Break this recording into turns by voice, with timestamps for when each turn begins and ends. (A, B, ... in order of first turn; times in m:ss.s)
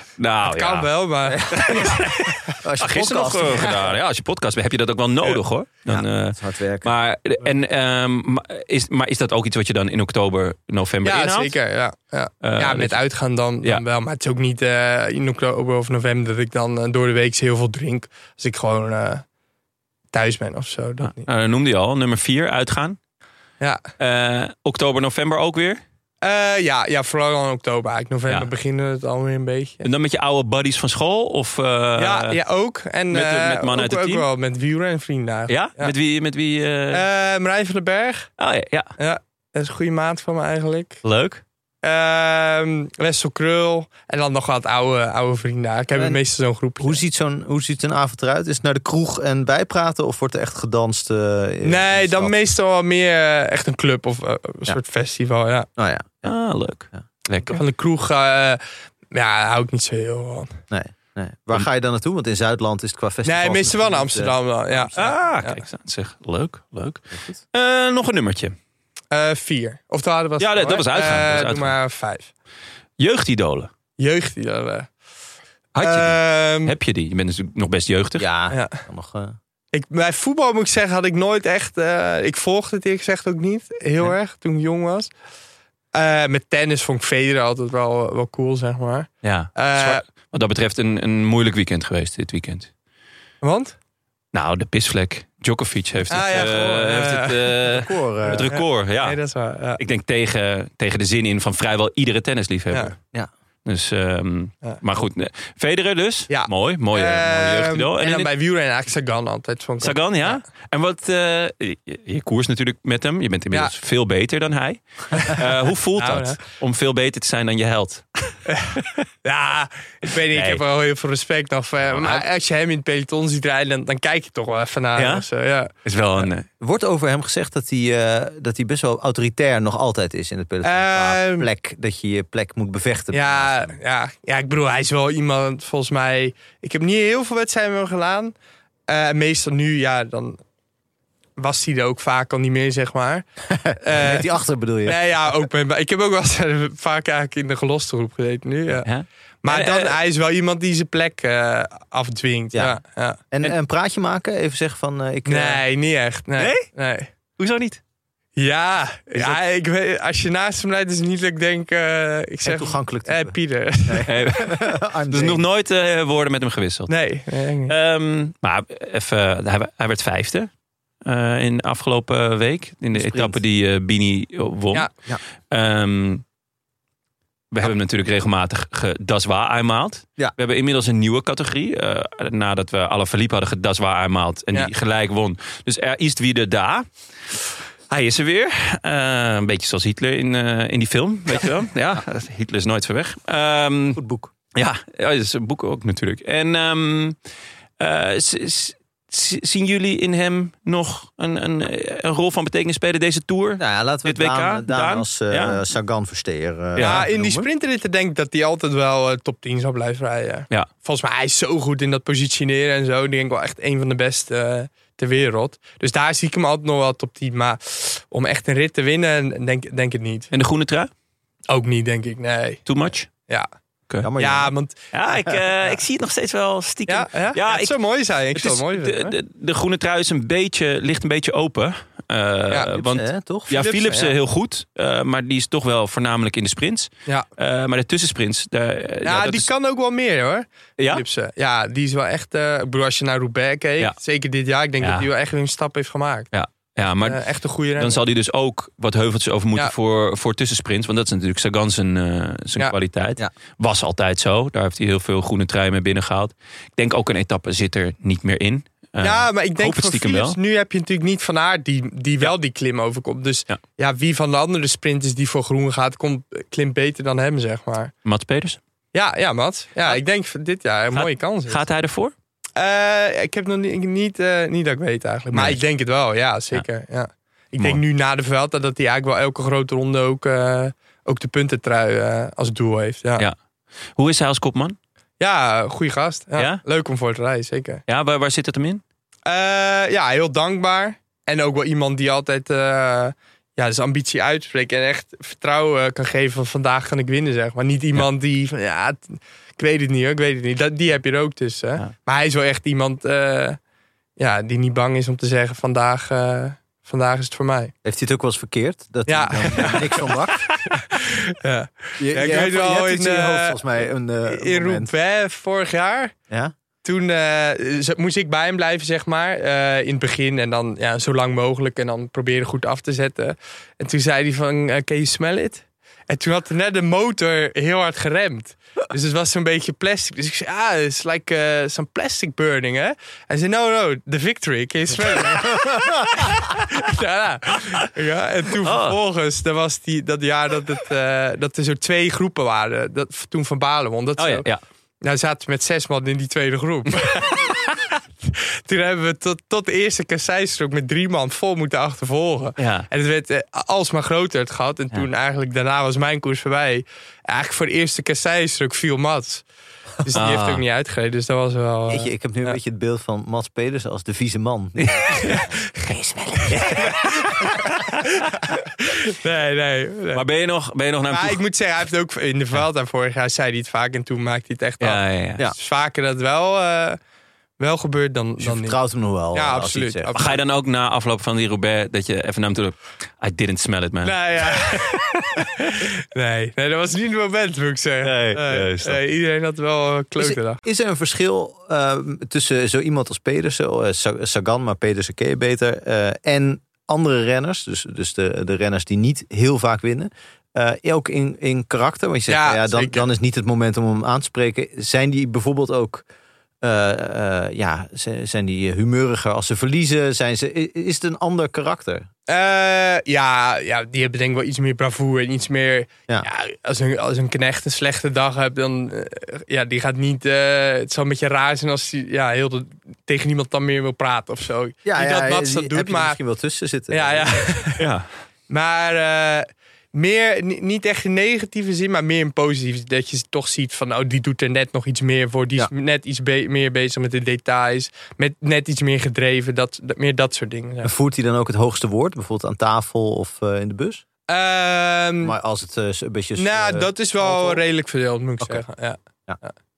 0:00.2-0:00.9 A
0:00.5-0:02.3 B
0:01.3-0:02.0 C
0:01.5-0:11.5 A
0:02.6-0:04.0 C
0:05.9-0:06.9 C
0:11.0-0:19.2 B
0:12.4-0:13.0 A
0:20.1-0:21.3 B
0:21.0-0:23.0 A
0:24.0-0:25.8 A
0:26.2-0:29.9 B
0:29.8-0:32.4 A
0:32.0-0:35.9 B
0:33.1-0:34.3 A
0:35.5-0:37.0 A
0:36.9-0:38.3 B
0:38.4-0:38.9 A
0:39.0-0:41.0 B
0:41.0-0:41.4 A
0:41.8-0:47.0 B
0:45.9-0:46.2 C
0:46.8-0:52.3 C
0:51.6-0:55.7 B
0:55.8-0:56.3 C
0:56.2-0:57.6 A
0:57.5-1:00.5 B
1:00.7-1:05.1 C
1:03.2-1:05.6 B
1:05.0-1:08.6 A
1:09.1-1:12.3 B
1:10.4-1:11.8 A
1:13.0-1:13.7 A
1:14.0-1:14.9 B
1:15.8-1:18.3 A
1:15.8-1:16.7 B
1:18.2-1:19.4 C
1:18.5-1:18.8 B
1:19.7-1:25.1 B
1:25.9-1:30.0 B
1:29.2-1:32.7 A
1:33.4-1:33.8 B
1:34.3-1:39.2 A
1:36.1-1:37.6 B
1:37.7-1:38.5 C
1:38.3-1:39.8 B
1:39.8-1:43.0 A
1:43.6-1:48.3 A
1:46.3-1:50.4 B
1:49.8-1:59.0 A
1:55.1-1:55.4 B
1:56.0-1:56.4 B
1:58.5-2:05.7 B
2:00.3-2:00.6 A
2:01.8-2:02.2 A
2:05.0-2:05.3 A
2:05.8-2:06.5 A
2:06.6-2:13.8 C
2:10.6-2:11.5 B
2:13.1-2:18.3 B
2:18.9-2:20.4 B
2:21.4-2:23.3 B
2:23.5-2:25.0 C
2:23.8-2:24.3 B
2:24.9-2:28.9 B
2:28.8-2:30.0 A
2:29.4-2:33.2 B
2:32.5-2:32.8 C
2:33.3-2:35.6 C
2:35.3-2:37.1 B
2:36.4-2:36.7 A
2:37.4-2:37.8 A
2:38.4-2:44.1 B
2:42.4-2:45.4 C
2:44.1-2:47.0 A
2:46.9-2:47.7 B
2:47.7-2:50.5 A
2:51.0-2:54.9 A
2:53.0-2:53.4 C
2:55.5-2:56.2 A
2:57.5-3:14.0 A
3:14.0-3:14.3 C
3:14.6-3:17.2 A
3:17.8-3:25.6 A
3:23.6-3:27.5 C
3:26.8-3:27.1 A
3:26.8-3:40.3 B
3:40.3-3:40.9 A
3:41.5-3:42.7 B
3:42.7-3:43.1 A
3:44.0-3:44.5 C
3:44.2-3:45.8 B
3:44.9-3:47.8 A
3:46.9-3:49.2 B
3:48.3-3:59.5 A
3:52.8-3:53.5 C
3:53.5-3:54.2 B
3:59.0-4:06.3 B
4:00.8-4:01.0 A
4:04.8-4:05.1 A
4:06.3-4:07.2 A
4:07.0-4:08.0 B
4:07.8-4:20.4 A
4:19.0-4:27.9 B
4:28.0-4:28.6 A
4:28.9-4:31.6 B
4:30.9-4:32.1 A
4:32.6-4:43.3 B
4:35.3-4:35.6 A
4:44.0-4:44.8 A
4:45.2-4:47.8 B
4:46.4-4:46.6 A
4:47.9-4:48.8 A
4:49.3-5:03.6 B
5:04.2-5:07.7 B
5:07.8-5:10.5 C
5:09.1-5:10.2 B
5:10.7-5:13.6 B
5:12.0-5:14.9 C
5:14.3-5:16.2 B
5:16.8-5:44.5 B
5:38.6-5:39.0 A
5:44.2-5:44.6 A
5:45.0-5:47.6 B
5:48.2-5:59.4 B
5:52.6-5:52.9 A
6:00.0-6:02.1 B
6:00.1-6:00.6 A
6:01.9-6:05.4 C
6:04.8-6:08.2 A
6:06.8-6:07.5 B
6:08.5-6:10.2 B
6:10.1-6:11.4 A
6:11.1-6:17.0 B
6:14.8-6:15.4 A
6:17.6-6:18.8 B
6:18.4-6:20.1 C
6:19.3-6:20.4 B
6:20.1-6:24.9 A
6:24.0-6:30.6 B
6:28.0-6:29.0 A
6:30.2-6:46.1 C
6:42.3-6:43.0 B
6:46.6-6:52.1 C
6:52.3-7:06.2 B
7:04.8-7:07.5 C
7:06.9-7:07.8 B
7:07.8-7:08.1 A
7:08.5-7:20.9 B
7:20.8-7:24.0 C
7:24.3-7:25.4 B
7:25.2-7:27.6 C
7:26.4-7:29.5 B